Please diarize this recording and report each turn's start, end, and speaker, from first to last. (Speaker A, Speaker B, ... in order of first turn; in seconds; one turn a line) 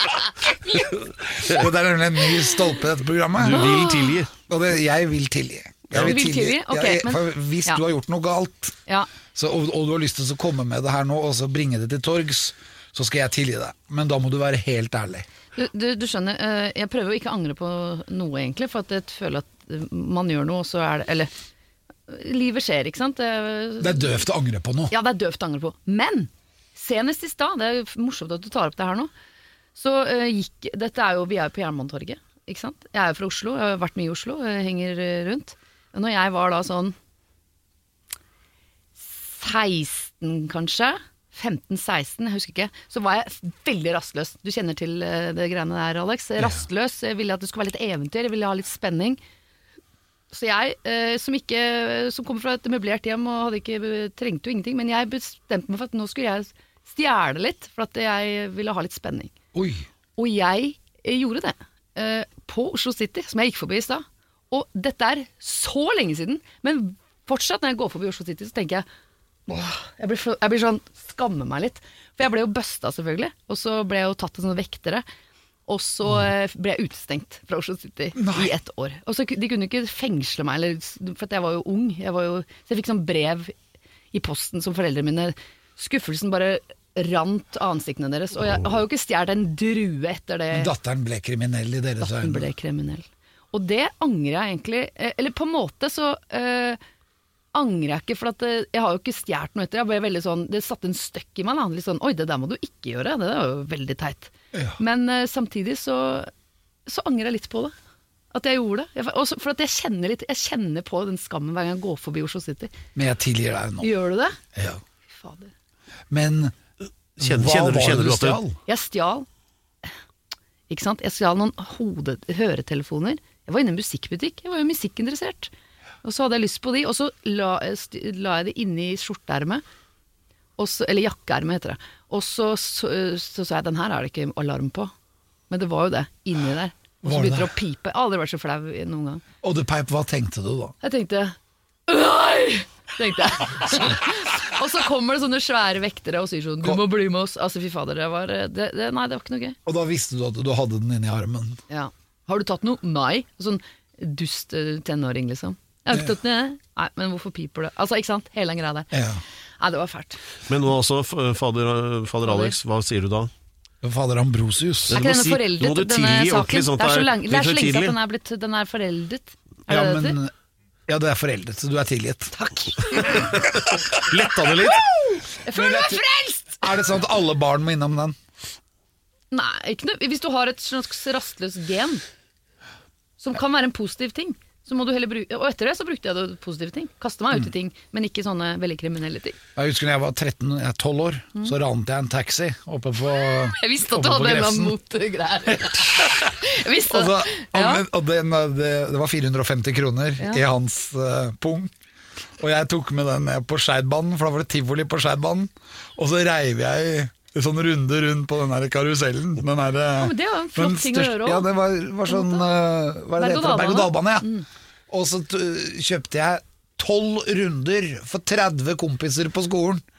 Speaker A: 1.3-3.8
Speaker B: 3.4-4.3
Speaker C: 3.5-4.2
Speaker A: 4.5-8.8
Speaker C: 5.9-7.8
Speaker A: 9.3-15.3
Speaker C: 15.6-21.3
Speaker C: 22.1-24.2
Speaker A: 23.8-24.9
Speaker C: 24.9-29.1
Speaker C: 29.8-37.0
Speaker C: 39.1-49.2
Speaker C: 50.3-59.4
Speaker A: 59.5-59.9
Speaker C: 60.2-68.9
Speaker C: 69.5-75.0
Speaker C: 75.7-83.5
Speaker A: 78.2-78.5
Speaker C: 84.1-90.7
Speaker A: 90.5-92.5
Speaker C: 92.0-96.8
Speaker C: 97.5-106.3
Speaker C: 106.9-107.7
Speaker C: 108.3-112.7
Speaker A: 113.0-113.9
Speaker C: 113.8-114.4
Speaker A: 114.5-114.8
Speaker C: 115.1-115.5
Speaker A: 116.1-116.5
Speaker B: 117.2-118.4
Speaker A: 117.2-118.6
Speaker C: 118.7-119.3
Speaker C: 120.7-125.5
Speaker C: 126.0-129.6
Speaker C: 130.6-134.9
Speaker C: 135.5-139.2
Speaker A: 137.0-137.5
Speaker A: 139.4-140.8
Speaker C: 140.8-141.3
Speaker C: 141.9-149.6
Speaker A: 149.7-151.6
Speaker C: 151.7-158.9
Speaker A: 158.9-159.2
Speaker C: 159.6-160.2
Speaker B: 160.5-163.3
Speaker C: 162.2-162.6
Speaker A: 163.8-165.0
Speaker B: 164.9-167.9
Speaker C: 164.9-170.2
Speaker A: 169.7-170.3
Speaker A: 170.9-172.3
Speaker C: 172.3-173.3
Speaker B: 173.2-174.9
Speaker C: 174.9-176.6
Speaker A: 175.5-176.0
Speaker A: 176.6-178.2
Speaker C: 179.3-182.0
Speaker C: 183.2-189.4
Speaker A: 189.6-194.8
Speaker C: 193.5-197.8
Speaker A: 195.9-196.3
Speaker A: 196.9-201.7
Speaker A: 202.4-214.3
Speaker C: 210.0-211.5
Speaker C: 212.1-212.4
Speaker C: 213.2-214.4
Speaker A: 214.9-219.8